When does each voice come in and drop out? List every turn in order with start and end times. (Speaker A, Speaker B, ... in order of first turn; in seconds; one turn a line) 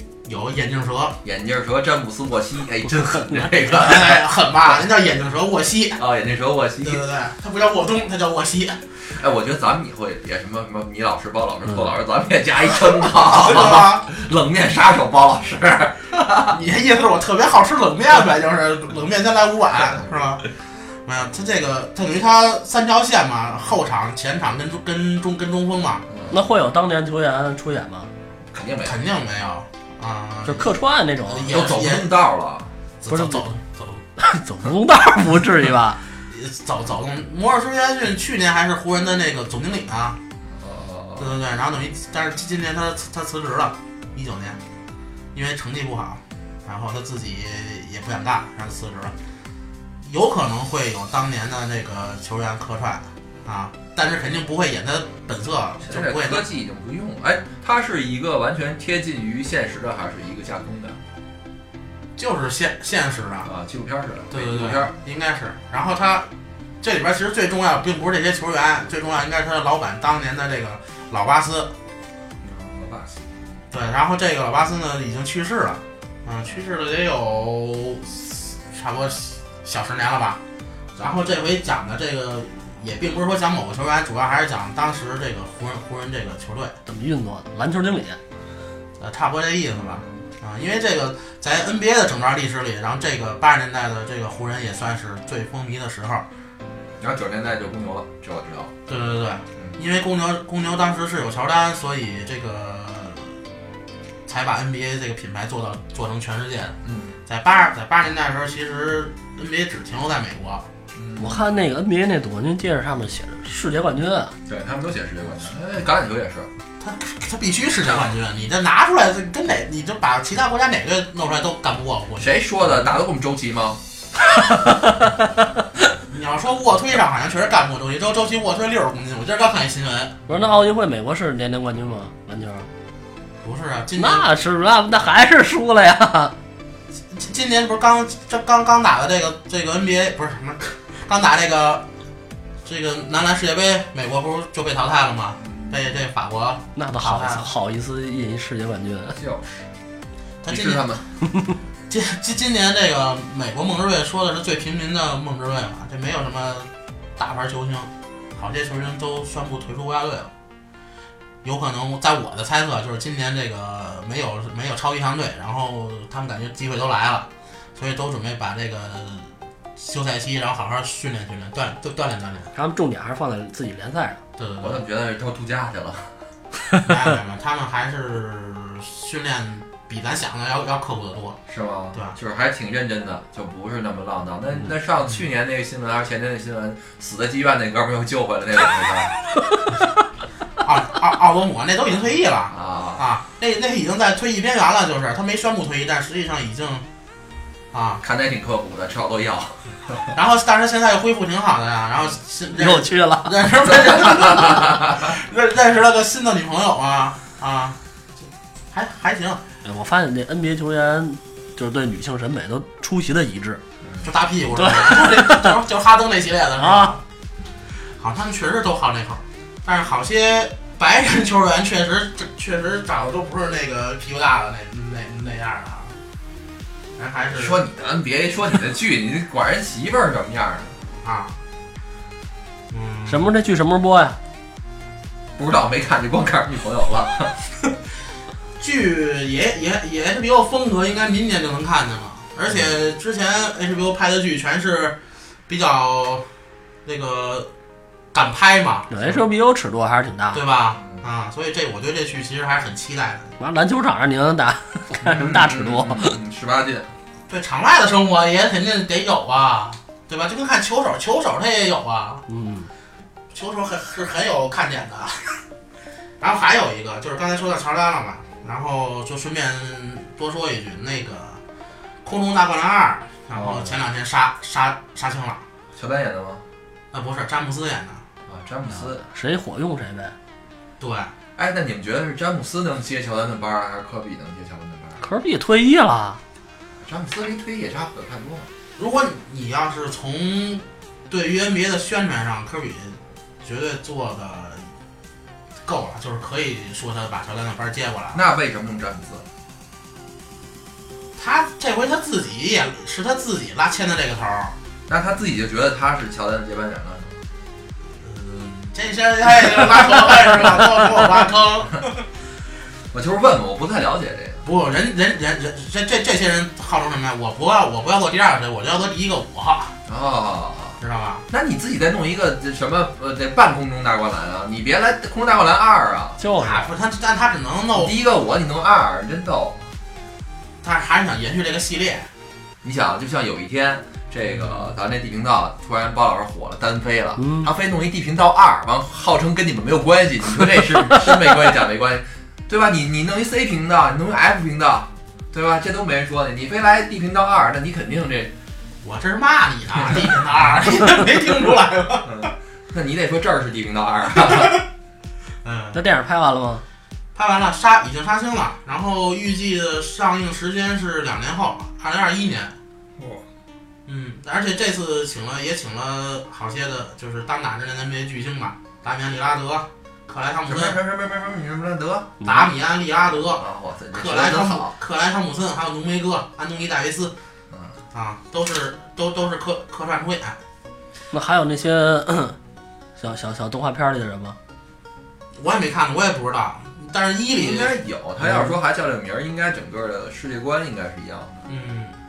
Speaker A: 0.2-1.2
Speaker B: 1.2-4.2
Speaker A: 3.6-6.0
Speaker B: 6.0-7.0
Speaker A: 6.8-8.8
Speaker B: 9.1-16.6
Speaker A: 13.1-14.1
Speaker A: 16.4-26.1
Speaker B: 26.1-26.4
Speaker C: 26.3-28.1
Speaker B: 28.5-29.0
Speaker A: 28.8-30.7
Speaker C: 30.4-31.5
Speaker A: 31.3-32.1
Speaker B: 31.5-32.7
Speaker A: 33.0-34.0
Speaker C: 33.1-33.4
Speaker C: 34.2-36.0
Speaker A: 36.3-40.2
Speaker B: 40.5-41.4
Speaker A: 41.2-44.6
Speaker A: 45.3-49.1
Speaker A: 50.0-56.5
Speaker B: 55.8-61.0
Speaker A: 62.2-63.5
Speaker B: 63.4-64.9
Speaker A: 64.3-66.3
Speaker A: 66.8-71.7
Speaker B: 72.4-73.4
Speaker A: 73.7-80.4
Speaker A: 81.0-86.8
Speaker C: 86.8-88.2
Speaker A: 89.0-96.2
Speaker B: 97.0-98.7
Speaker A: 98.9-103.3
Speaker A: 104.3-110.7
Speaker B: 106.8-107.1
Speaker B: 110.9-111.4
Speaker C: 111.2-114.3
Speaker B: 114.5-116.5
Speaker A: 116.8-122.3
Speaker B: 122.2-123.8
Speaker C: 124.3-125.5
Speaker A: 126.1-130.2
Speaker C: 130.3-132.7
Speaker A: 133.4-134.2
Speaker C: 134.0-136.3
Speaker A: 137.1-141.8
Speaker A: 142.6-147.5
Speaker B: 145.4-145.8
Speaker C: 146.8-149.2
Speaker B: 149.1-149.7
Speaker A: 150.4-150.8
Speaker B: 150.5-151.1
Speaker A: 151.9-160.3
Speaker A: 161.4-172.5
Speaker C: 172.5-174.2
Speaker A: 174.4-174.8
Speaker B: 174.6-176.1
Speaker A: 176.8-181.4
Speaker B: 181.5-189.2
Speaker A: 190.6-196.8
Speaker B: 192.5-193.0
Speaker A: 197.7-198.0
Speaker B: 198.0-200.1
Speaker A: 200.1-207.8
Speaker C: 202.5-203.3
Speaker B: 203.8-204.9
Speaker A: 208.7-209.4
Speaker C: 209.6-213.6
Speaker A: 214.0-217.0
Speaker C: 214.6-215.6
Speaker C: 216.6-216.9
Speaker A: 217.9-226.0
Speaker A: 226.9-227.6
Speaker B: 227.3-230.8
Speaker A: 231.0-231.4
Speaker A: 232.7-233.3
Speaker C: 233.1-234.2
Speaker B: 235.4-237.6
Speaker A: 238.6-245.0
Speaker A: 245.5-246.3
Speaker A: 246.8-247.5
Speaker A: 248.1-248.9
Speaker C: 248.9-250.4
Speaker A: 250.3-253.3
Speaker C: 253.4-256.1
Speaker B: 255.0-256.9
Speaker A: 257.3-262.2
Speaker C: 262.3-262.7
Speaker A: 263.3-265.4
Speaker A: 266.2-271.4
Speaker A: 272.0-275.4
Speaker B: 273.4-273.6
Speaker B: 275.7-276.4
Speaker A: 276.9-278.0
Speaker B: 278.3-279.0
Speaker C: 279.0-280.1
Speaker A: 280.8-281.1
Speaker B: 281.4-285.0
Speaker C: 285.0-286.2
Speaker B: 286.8-288.5
Speaker A: 288.8-294.7
Speaker A: 295.6-298.2
Speaker B: 298.1-299.3
Speaker A: 301.2-304.6
Speaker B: 304.9-307.2
Speaker A: 307.9-312.0
Speaker B: 312.9-314.4
Speaker A: 314.4-319.8
Speaker B: 319.9-326.2
Speaker A: 320.8-321.2
Speaker C: 326.2-326.7
Speaker A: 326.4-327.9
Speaker B: 327.7-329.7
Speaker A: 330.6-332.1
Speaker B: 332.6-348.3
Speaker A: 334.3-334.7
Speaker C: 337.2-337.5
Speaker A: 348.8-352.3
Speaker B: 352.0-354.6
Speaker A: 354.2-354.5
Speaker A: 355.4-355.8
Speaker C: 355.7-356.6
Speaker A: 357.1-362.5
Speaker B: 363.0-363.2
Speaker A: 363.9-370.8
Speaker B: 370.5-372.1
Speaker C: 372.2-372.5
Speaker A: 372.2-377.1
Speaker B: 373.3-374.7
Speaker B: 377.5-377.8
Speaker A: 377.9-380.4
Speaker C: 381.1-382.4
Speaker C: 383.0-384.4
Speaker A: 385.4-387.7
Speaker B: 387.4-391.3
Speaker A: 391.5-391.9